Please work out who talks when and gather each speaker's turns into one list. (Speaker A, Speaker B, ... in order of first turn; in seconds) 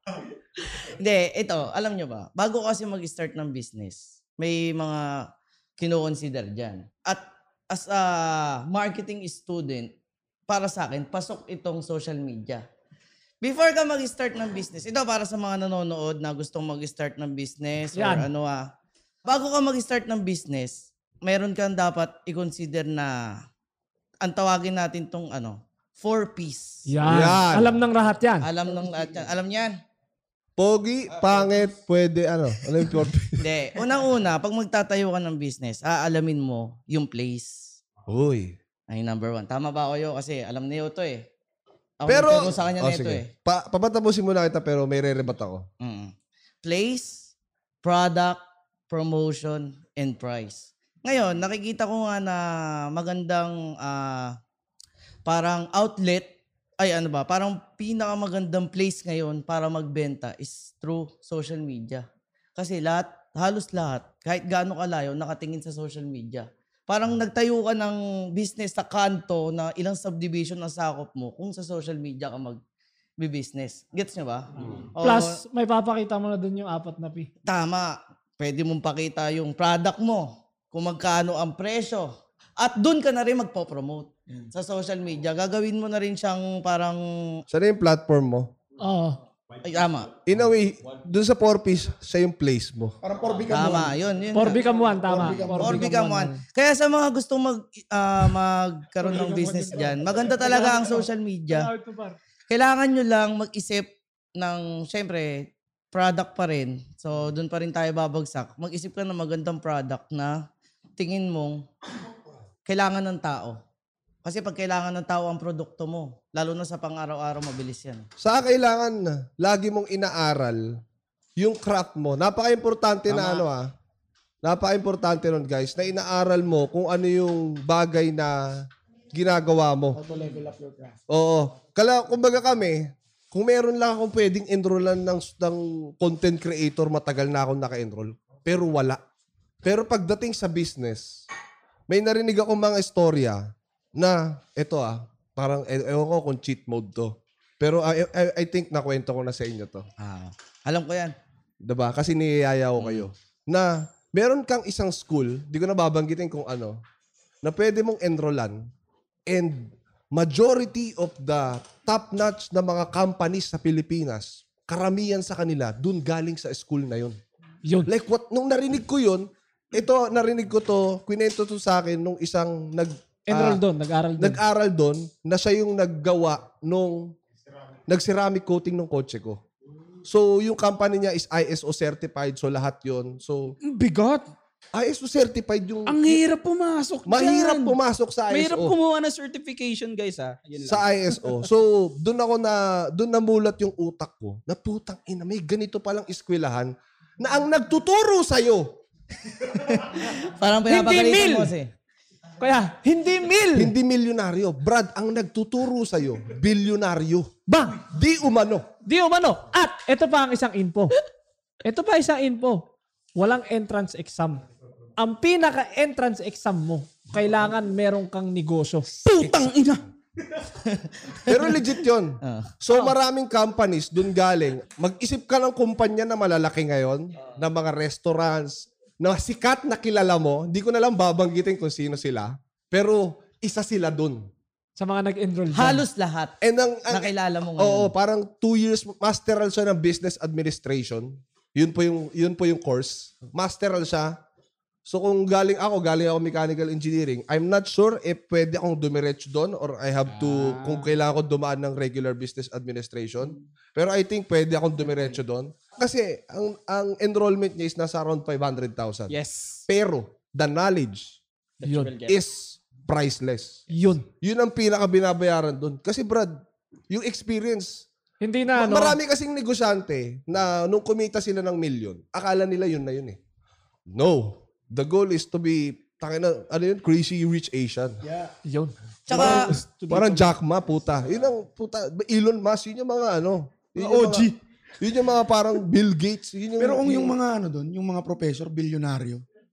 Speaker A: 0.6-9.9, 10.5-12.7, 13.4-18.7, 19.2-23.4, 24.2-27.0, 28.4-29.8, 33.4-37.8, 38.9-41.3, 42.0-43.3, 45.8-46.1, 46.6-47.3, 47.8-54.4, 55.3-62.0, 62.6-72.6, 73.2-75.4, 77.5-87.4, 89.6-90.2, 93.5-94.7, 95.6-101.7, 102.5-110.5, 111.0-111.7, 112.7-113.6, 114.2-118.1, 123.1-123.4, 150.0-151.2, 152.8-153.1, 199.5-201.7, 220.6-221.4, 222.2-222.5, 235.5-236.4, 236.9-237.9, 279.1-279.5
Speaker B: 17.9-18.3, 26.9-28.5, 75.0-77.3, 88.8-89.2, 94.3-96.4, 99.0-102.2, 167.7-167.9, 173.3-174.4, 200.7-201.5, 202.4-203.7, 207.5-207.8, 208.8-211.0, 211.6-214.4, 215.0-219.1, 234.8-235.8, 263.7-264.1, 268.2-269.0, 278.4-278.8
Speaker C: 27.0-27.8, 30.6-33.4, 38.1-38.6, 42.1-45.7, 87.5-88.5, 90.2-93.0, 118.2-120.8, 121.4-123.7, 124.4-130.0, 131.1-139.0, 139.6-141.2, 141.9-149.9, 151.6-156.8, 157.4-158.7, 159.3-167.2, 167.9-173.6, 174.2-177.2, 177.9-179.4, 180.1-183.6, 184.7-186.2, 187.1-188.8, 190.6-198.8, 203.6-208.7, 221.3-234.3, 236.4-244.2, 244.9-259.2, 259.7-261.2, 262.1-263.6, 264.2-267.9, 268.5-273.2, 273.9-278.0, 279.1-287.1
Speaker D: 93.0-96.0, 129.9-131.0, 278.1-278.3, 283.8-284.3, 286.6-289.2
Speaker E: 183.6-184.3, 185.9-187.8, 188.3-190.9, 219.0-219.8, 250.1-250.9, 259.1-259.7, 261.6-262.2, 279.1-280.3